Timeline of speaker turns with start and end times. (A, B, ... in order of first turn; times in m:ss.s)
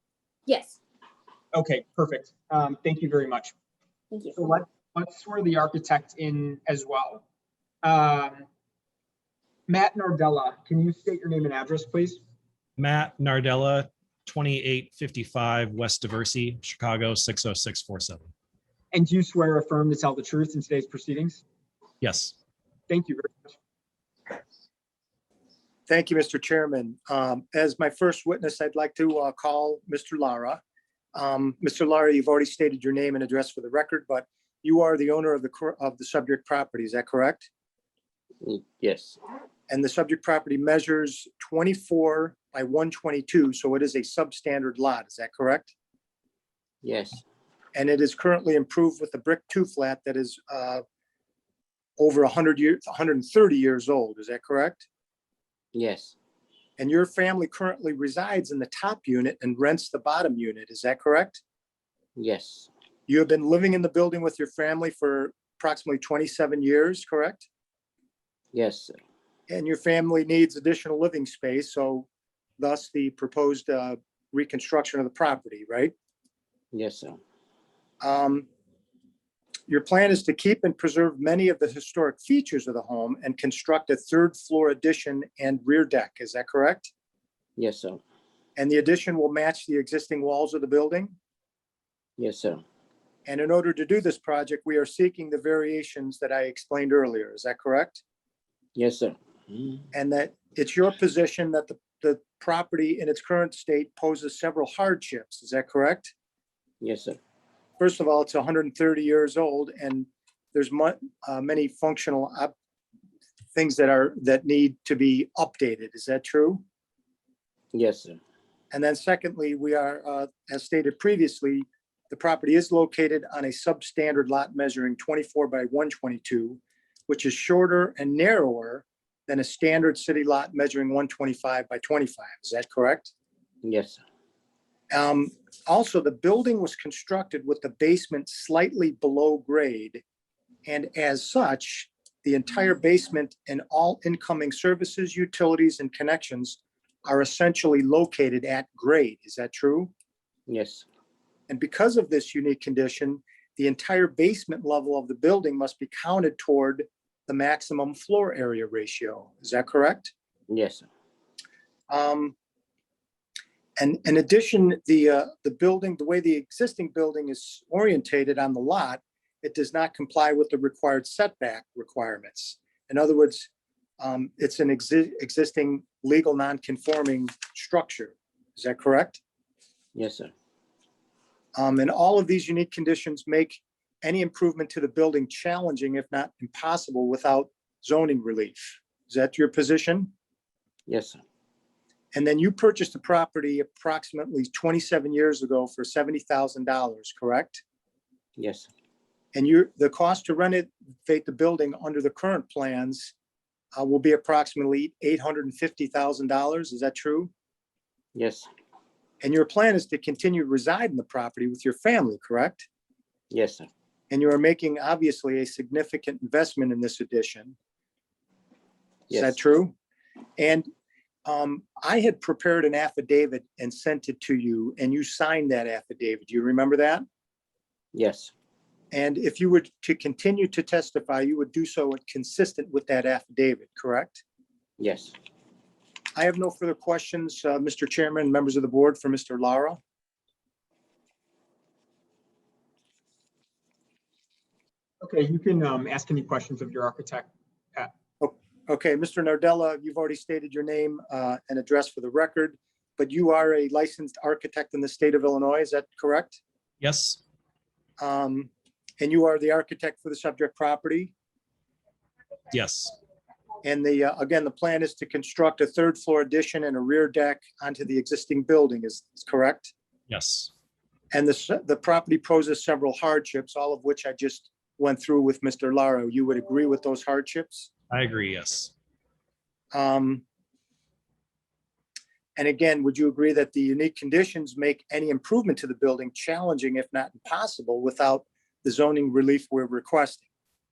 0:01.5-0:03.5 A
0:04.4-0:07.2 A
0:07.8-0:08.5 A
0:09.7-0:12.2 A
0:12.8-0:18.3 B
0:18.9-0:21.4 A
0:22.0-0:22.3 B
0:22.9-0:23.5 A
0:25.9-0:30.6 C
0:31.2-0:37.5 C
0:38.4-0:39.2 D
0:39.7-0:45.7 C
0:46.8-0:47.2 D
0:47.7-0:50.8 C
0:52.0-0:54.9 C
0:55.7-0:56.2 D
0:56.8-1:01.4 C
1:02.2-1:02.7 D
1:03.1-1:07.5 C
1:08.5-1:09.0 D
1:09.5-1:12.1 C
1:12.6-1:15.9 C
1:16.7-1:17.2 D
1:18.0-1:18.5 C
1:19.7-1:26.9 C
1:27.6-1:28.0 D
1:28.6-1:31.2 C
1:32.2-1:32.6 D
1:33.3-1:38.0 C
1:38.8-1:39.8 D
1:39.9-1:46.1 C
1:46.8-1:47.2 D
1:47.8-1:52.5 C
1:53.6-1:56.6 C
1:57.7-1:58.2 D
1:58.7-2:13.1 C
2:13.6-2:14.0 D
2:14.9-2:20.0 C
2:20.7-2:29.9 C
2:30.5-2:30.8 D
2:31.5-2:40.1 C
2:40.5-2:40.9 D
2:41.9-2:42.4 C
2:43.8-2:59.2 C
3:00.0-3:00.3 D
3:01.6-3:10.1 C
3:10.9-3:11.2 D
3:12.1-3:17.6 C
3:18.4-3:18.7 D
3:19.3-3:23.1 C
3:23.8-3:27.3 C
3:28.2-3:28.5 D
3:29.2-3:32.7 C
3:33.3-3:33.7 D
3:34.1-3:37.6 C
3:39.1-3:39.4 D
3:39.1-3:39.7 C
3:40.4-3:40.7 C
3:41.3-3:47.0 C
3:47.9-3:48.3 D
3:48.9-3:54.2 C
3:54.8-3:55.2 D
3:56.2-3:59.8 C
4:05.0-4:07.9 A
4:08.2-4:16.4 C
4:16.8-4:17.2 B
4:18.0-4:21.1 C
4:22.5-4:23.0 B
4:23.6-4:29.7 C
4:30.1-4:30.5 B
4:31.1-4:37.7 C
4:37.9-4:38.7 B
4:39.7-4:40.2 C
4:42.4-4:50.2 C